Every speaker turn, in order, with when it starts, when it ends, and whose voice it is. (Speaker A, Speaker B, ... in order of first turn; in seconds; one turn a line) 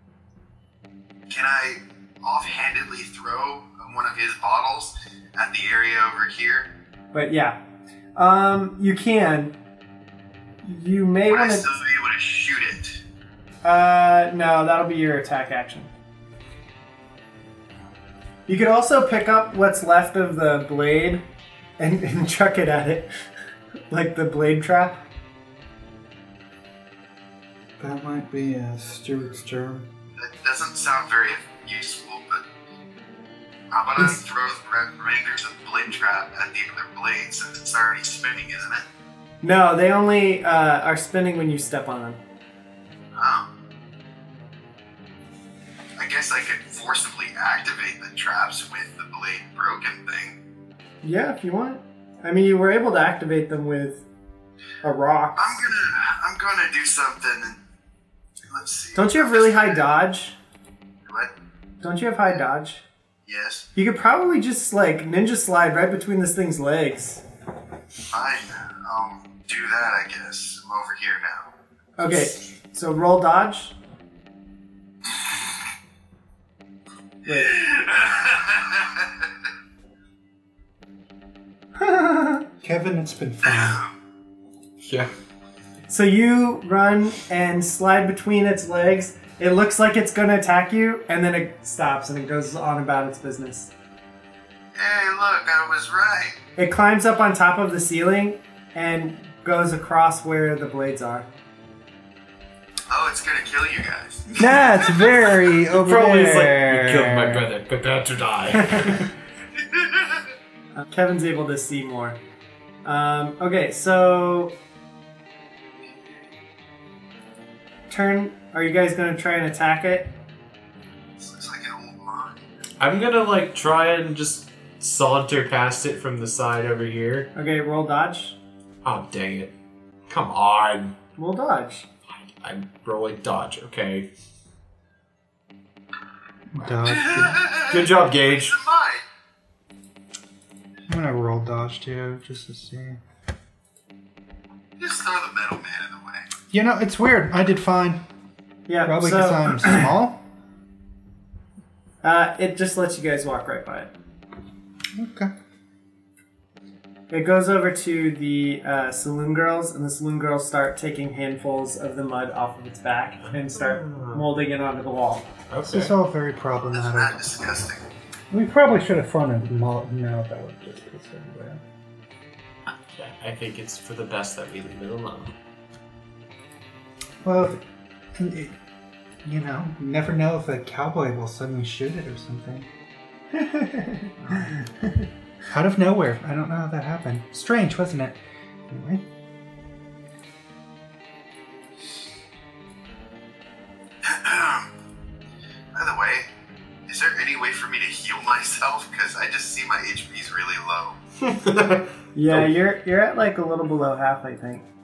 Speaker A: 1.3-6.7
Speaker B: 7.1-7.6
Speaker B: 8.2-9.5
Speaker B: 10.6-11.7
Speaker A: 11.3-13.0
Speaker B: 13.6-15.9
Speaker B: 18.5-21.2
Speaker B: 21.8-23.1
Speaker B: 23.9-25.0
Speaker C: 27.8-29.9
Speaker A: 30.2-32.4
Speaker A: 33.7-38.9
Speaker B: 39.4-42.2
Speaker A: 43.2-43.5
Speaker A: 46.0-50.4
Speaker B: 51.0-54.0
Speaker B: 54.8-55.5
Speaker A: 55.4-57.6
Speaker A: 58.5-59.9
Speaker B: 59.0-60.4
Speaker B: 61.8-62.8
Speaker A: 63.3-63.7
Speaker B: 63.8-67.2
Speaker A: 68.1-71.5
Speaker B: 72.0-73.8
Speaker B: 77.3-77.6
Speaker A: 77.4-79.0
Speaker B: 81.8-82.5
Speaker C: 82.6-83.8
Speaker A: 83.4-83.9
Speaker D: 84.8-85.1
Speaker B: 85.9-93.7
Speaker A: 94.8-96.4
Speaker B: 96.6-101.3
Speaker A: 102.9-104.6
Speaker C: 104.3-107.5
Speaker D: 105.7-109.1
Speaker B: 110.8-112.2
Speaker B: 112.8-114.6
Speaker B: 117.9-120.1
Speaker A: 121.2-122.4
Speaker D: 122.8-127.3
Speaker B: 127.3-128.4
Speaker D: 128.8-129.5
Speaker D: 130.1-130.9
Speaker B: 131.2-131.9
Speaker D: 132.4-134.1
Speaker C: 136.5-137.4
Speaker A: 136.9-139.0
Speaker D: 137.6-138.6
Speaker C: 140.9-143.0
Speaker A: 144.8-146.3
Speaker C: 146.5-148.0
Speaker B: 148.7-149.9
Speaker C: 148.8-150.2
Speaker B: 152.0-153.9
Speaker C: 154.9-155.3
Speaker B: 157.1-165.3
Speaker D: 163.3-164.3
Speaker D: 165.5-165.9
Speaker C: 165.7-167.4
Speaker A: 166.7-167.8
Speaker C: 168.3-171.6
Speaker D: 172.9-175.3
Speaker C: 177.2-177.6
Speaker C: 178.2-178.6
Speaker C: 179.2-182.7
Speaker B: 183.3-184.1
Speaker C: 185.5-189.1
Speaker A: 194.0-194.7
Speaker A: 195.8-196.3
Speaker A: 196.9-201.0
Speaker D: 201.2-202.5
Speaker B: 202.2-204.7